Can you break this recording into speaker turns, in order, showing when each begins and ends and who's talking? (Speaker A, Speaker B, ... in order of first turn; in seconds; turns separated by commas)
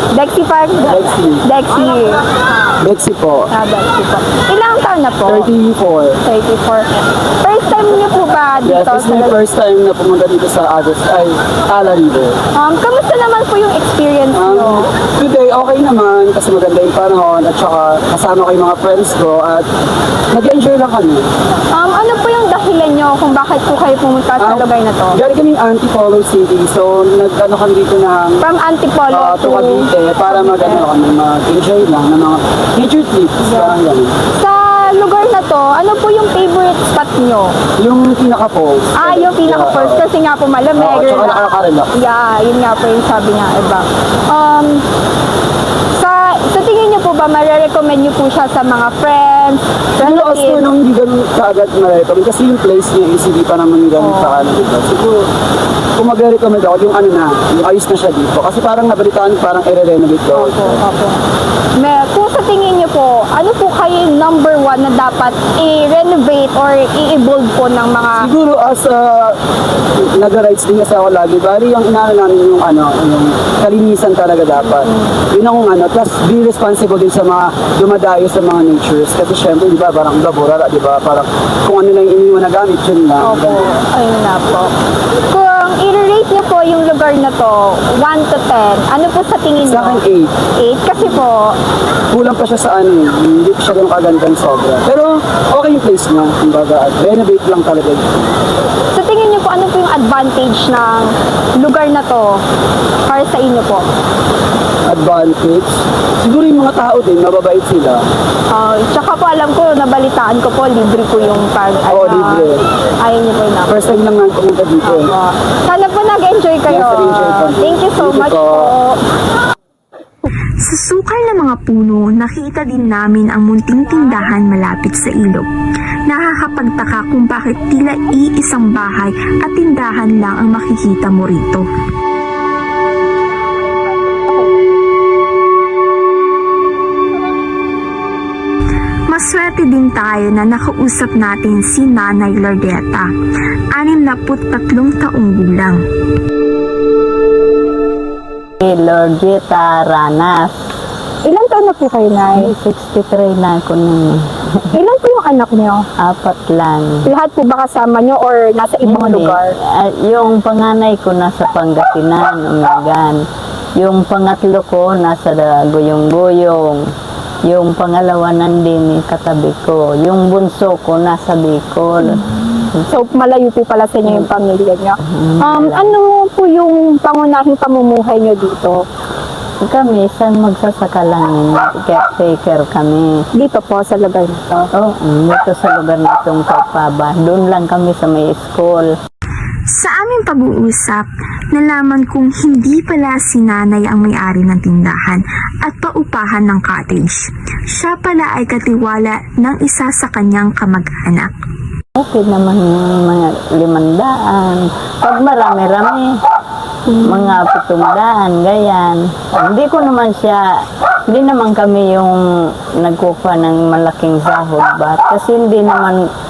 Speaker A: 0.1-2.2, Speaker B: 0.8-1.4, Speaker B: 2.8-3.5, Speaker A: 3.5-5.5, Speaker B: 5.3-6.2, Speaker A: 6.2-6.9, Speaker A: 7.4-9.4, Speaker B: 8.7-12.4, Speaker A: 12.6-14.9, Speaker B: 14.3-19.7, Speaker B: 20.3-21.3, Speaker A: 21.7-25.2, Speaker B: 24.4-28.4, Speaker A: 28.4-30.8, Speaker B: 29.1-34.1, Speaker A: 33.5-33.8, Speaker A: 34.4-37.5, Speaker B: 37.8-40.0, Speaker A: 39.0-41.4, Speaker B: 40.8-41.9, Speaker A: 41.9-44.8, Speaker A: 45.9-50.6, Speaker B: 50.0-55.2, Speaker A: 54.0-54.5, Speaker B: 56.0-60.8, Speaker A: 60.3-61.2, Speaker A: 61.8-68.3, Speaker B: 68.2-69.4, Speaker B: 70.0-83.7, Speaker A: 74.7-75.1, Speaker A: 83.2-84.7, Speaker A: 85.3-90.0, Speaker B: 89.7-90.3, Speaker A: 90.6-91.6, Speaker B: 92.1-98.3, Speaker A: 98.9-102.4, Speaker A: 103.0-103.8, Speaker B: 104.9-108.0, Speaker A: 108.5-113.8, Speaker B: 111.9-112.6, Speaker B: 113.7-115.1, Speaker A: 114.8-119.0, Speaker B: 116.7-118.7, Speaker C: 120.7-125.5, Speaker C: 126.1-131.7, Speaker A: 133.3-134.7, Speaker C: 139.1-143.1, Speaker C: 143.8-145.8, Speaker D: 148.6-150.6, Speaker A: 151.2-152.5, Speaker D: 152.3-154.5, Speaker A: 154.7-155.9, Speaker D: 156.0-157.1, Speaker A: 157.1-159.5, Speaker D: 158.8-163.2, Speaker D: 163.8-166.9, Speaker D: 167.4-172.7, Speaker A: 172.9-178.8, Speaker D: 175.1-176.0, Speaker D: 179.6-183.2, Speaker A: 183.3-184.6, Speaker D: 184.7-188.9, Speaker C: 189.7-201.3, Speaker D: 202.0-206.1, Speaker A: 206.9-207.3, Speaker D: 207.0-216.1